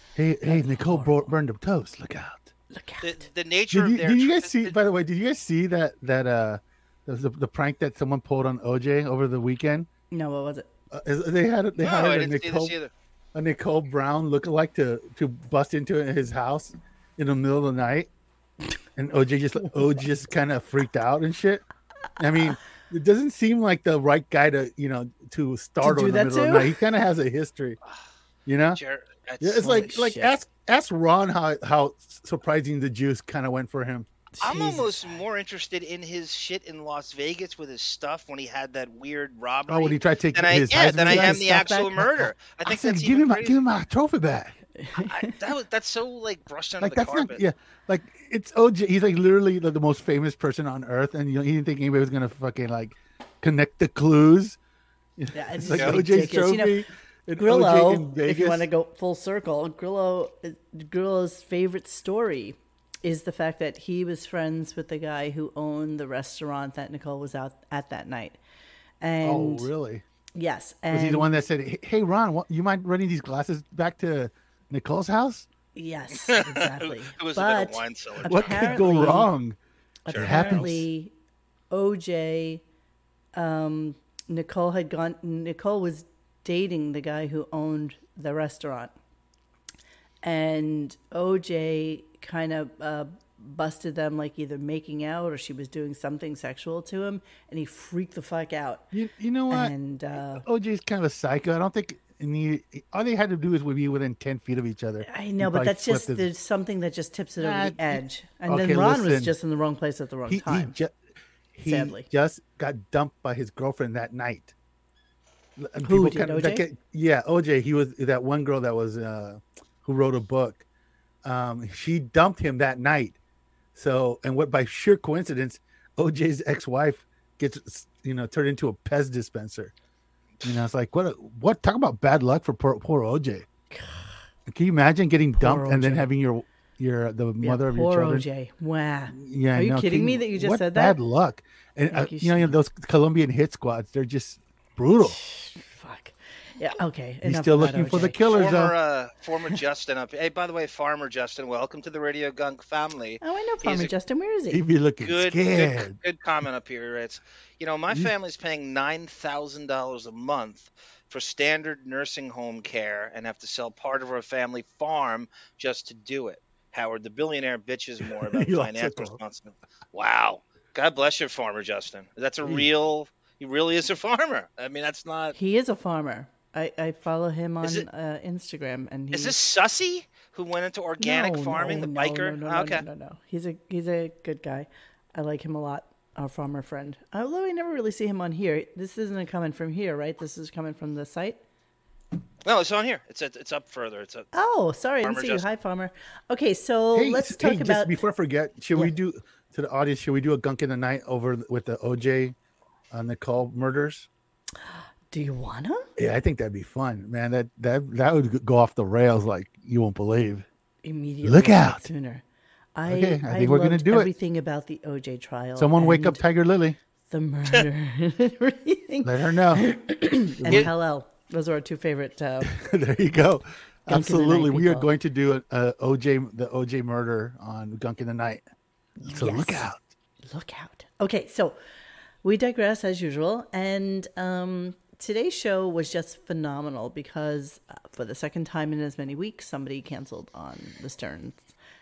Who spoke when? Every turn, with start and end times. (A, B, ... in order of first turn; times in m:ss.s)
0:00.2-0:02.5 A
0:00.4-0:01.3 B
0:02.7-0:03.3 B
0:03.0-0:04.7 C
0:03.7-0:09.9 A
0:10.1-0:10.7 B
0:10.9-0:12.8 A
0:11.8-0:12.9 C
0:13.3-0:18.1 A
0:19.0-0:21.6 A
0:19.6-0:19.9 B
0:22.2-0:27.8 A
0:25.8-0:26.7 B
0:28.4-0:28.8 A
0:28.8-0:29.9 C
0:29.4-0:34.1 A
0:29.6-0:30.3 B
0:34.3-0:35.2 B
0:34.4-0:43.6 C
0:39.7-0:44.6 A
0:41.0-0:42.0 B
0:44.8-0:45.3 B
0:45.0-0:47.4 C
0:46.8-0:54.6 A
0:55.2-0:58.7 A
0:55.3-0:56.8 B
0:57.4-1:08.4 B
1:09.0-1:09.7 B
1:09.2-1:10.0 A
1:10.3-1:11.3 B
1:10.9-1:15.5 A
1:15.7-1:19.3 B
1:16.3-1:18.8 C
1:18.2-1:19.6 A
1:20.0-1:21.1 B
1:20.1-1:20.6 C
1:20.1-1:20.8 A
1:21.7-1:22.6 B
1:23.3-1:28.9 B
1:30.2-1:38.8 B
1:38.9-1:46.2 A
1:39.5-1:40.4 B
1:45.0-1:50.7 B
1:47.4-1:49.4 A
1:50.3-1:51.0 A
1:51.5-1:54.5 A
1:51.6-1:52.1 B
1:55.6-2:00.6 A
1:55.8-1:56.6 B
2:01.2-2:03.2 A
2:03.7-2:09.7 A
2:10.4-2:13.4 A
2:13.7-2:14.1 B
2:14.5-2:18.3 A
2:15.3-2:16.1 B
2:17.4-2:21.0 B
2:19.1-2:25.2 A
2:21.9-2:22.6 B
2:25.0-2:28.2 B
2:27.2-2:28.7 A
2:28.3-2:33.9 C
2:33.2-2:34.6 B
2:34.5-2:36.0 A
2:35.0-2:55.3 C
2:48.0-2:49.2 A
2:52.4-2:52.7 A
2:55.3-2:59.3 B
2:59.1-3:02.8 C
3:01.0-3:11.4 B
3:12.4-3:14.3 C
3:14.3-3:18.0 B
3:15.0-3:15.4 C
3:16.9-3:22.3 A
3:22.9-3:24.1 A
3:24.7-3:25.9 B
3:26.0-3:30.4 A
3:30.8-3:32.2 B
3:31.2-3:31.9 A
3:32.7-3:36.2 B
3:32.9-3:34.1 A
3:35.6-3:36.8 A
3:37.1-3:42.5 B
3:39.0-3:39.7 A
3:40.4-3:40.7 A
3:42.4-3:48.4 A
3:43.9-3:44.9 B
3:49.0-3:49.7 B
3:49.0-3:49.8 A
3:50.3-3:51.6 B
3:52.2-4:01.4 B